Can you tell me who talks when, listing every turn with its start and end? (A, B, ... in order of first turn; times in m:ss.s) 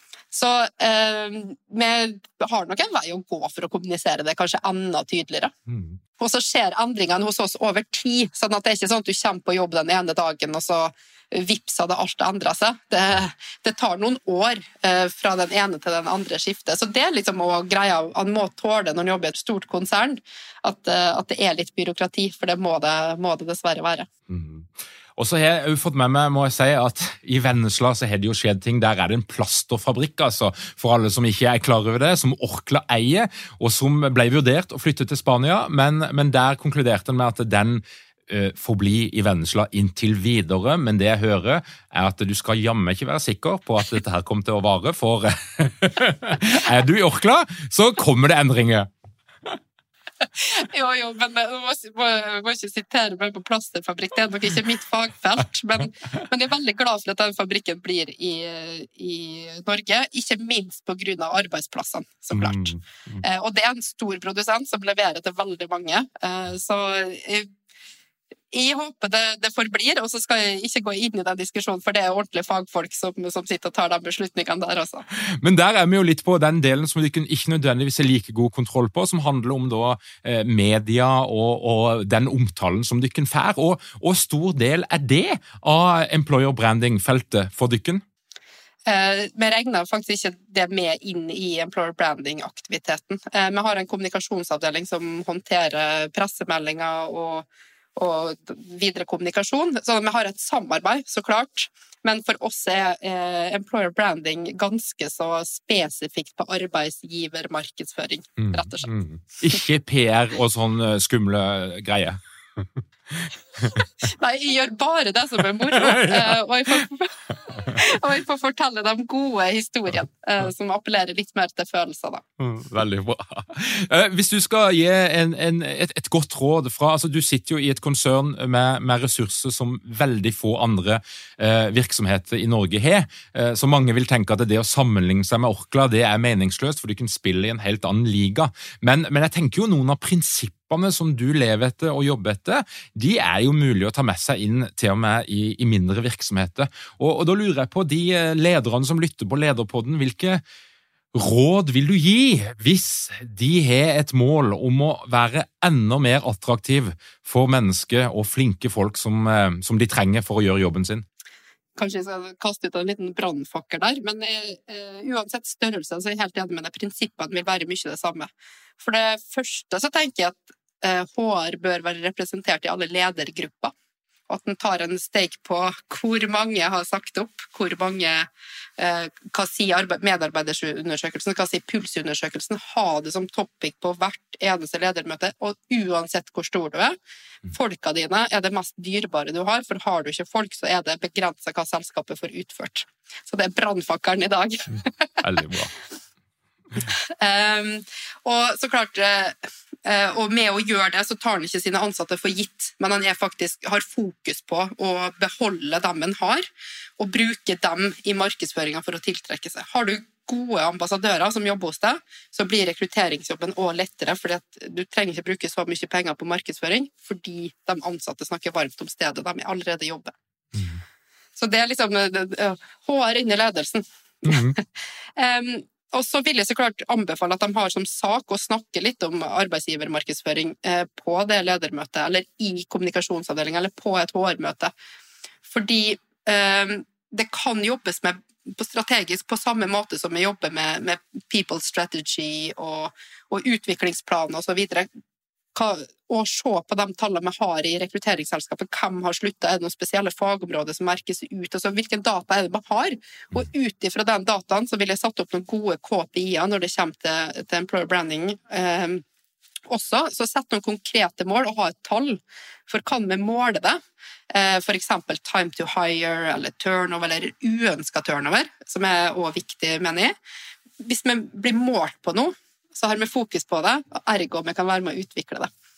0:00.3-0:05.5 A
0:05.7-0:06.0 B
0:06.2-0:24.1 A
0:24.3-0:48.9 B
0:50.2-1:07.5 A
1:02.3-1:03.2 B
1:08.5-1:15.0 A
1:15.1-1:28.0 B
1:28.8-1:48.9 A
1:48.4-1:53.8 B
1:53.8-2:02.2 A
1:55.8-1:56.3 B
2:02.4-2:30.4 B
2:31.1-2:41.0 B
2:41.8-2:53.7 A
2:54.3-3:07.0 A
3:07.5-3:15.2 A
3:15.2-3:15.7 B
3:16.8-3:26.4 A
3:27.0-3:40.1 A
3:40.5-3:40.8 B
3:41.4-3:54.7 A
3:44.2-3:44.6 B
3:55.4-4:04.9 A
4:05.5-4:19.0 A
4:19.7-4:30.1 A
4:30.8-4:35.5 A